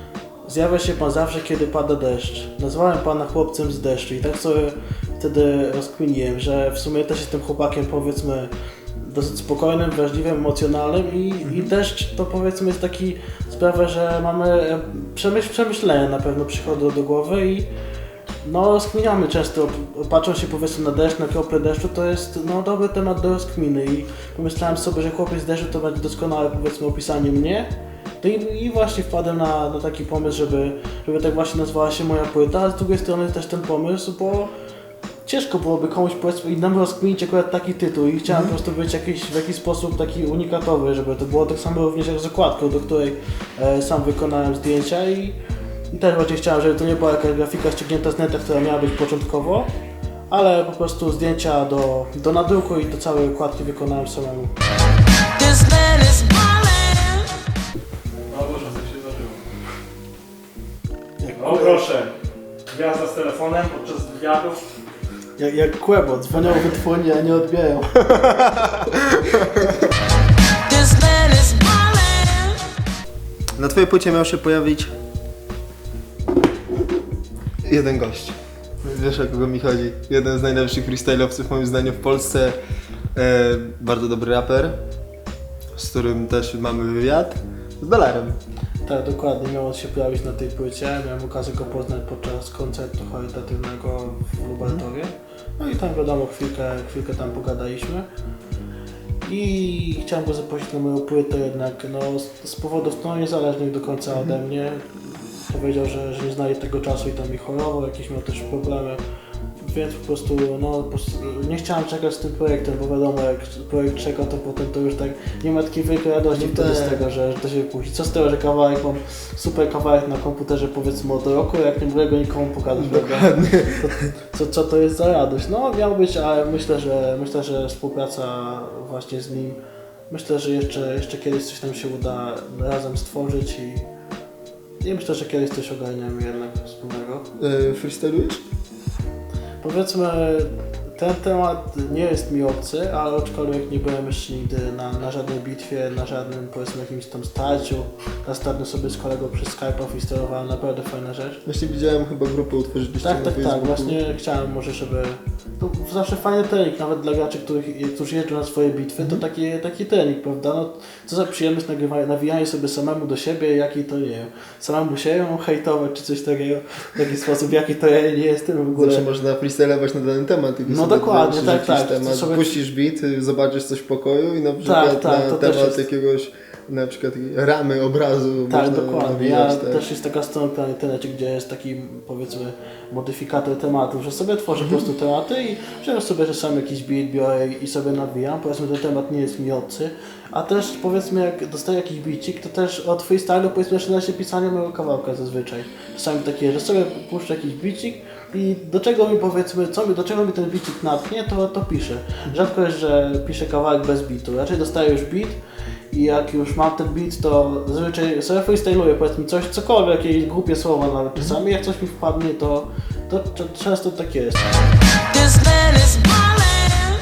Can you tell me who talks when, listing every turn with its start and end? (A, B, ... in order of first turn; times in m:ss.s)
0:00.4-0:17.7 A
0:11.4-0:11.7 B
0:18.4-0:27.7 A
0:28.2-0:34.5 A
0:35.2-0:45.4 A
0:38.3-0:38.6 B
0:45.9-0:49.7 A
0:50.3-0:54.6 A
0:55.4-0:57.2 C
0:58.3-0:59.4 C
1:01.2-1:01.9 A
1:01.4-1:02.1 C
1:02.7-1:04.6 C
1:05.4-1:08.5 A
1:08.3-1:09.7 B
1:10.7-1:12.3 C
1:13.6-1:14.9 B
1:17.6-1:22.6 B
1:23.2-1:24.8 B
1:25.8-1:28.4 B
1:28.8-1:38.1 A
1:39.2-1:49.0 A
1:49.6-2:09.6 A
1:56.3-1:57.0 B
2:02.7-2:04.1 B
2:10.1-2:13.9 A
2:14.8-2:17.3 A
2:17.4-2:18.4 B
2:19.6-2:31.4 A
2:31.4-2:34.0 B
2:33.0-2:49.0 A
2:48.8-2:59.8 B
2:50.7-2:52.6 A
2:54.6-2:55.9 A
2:58.5-3:25.4 A
3:04.6-3:04.9 B
3:25.9-3:34.5 A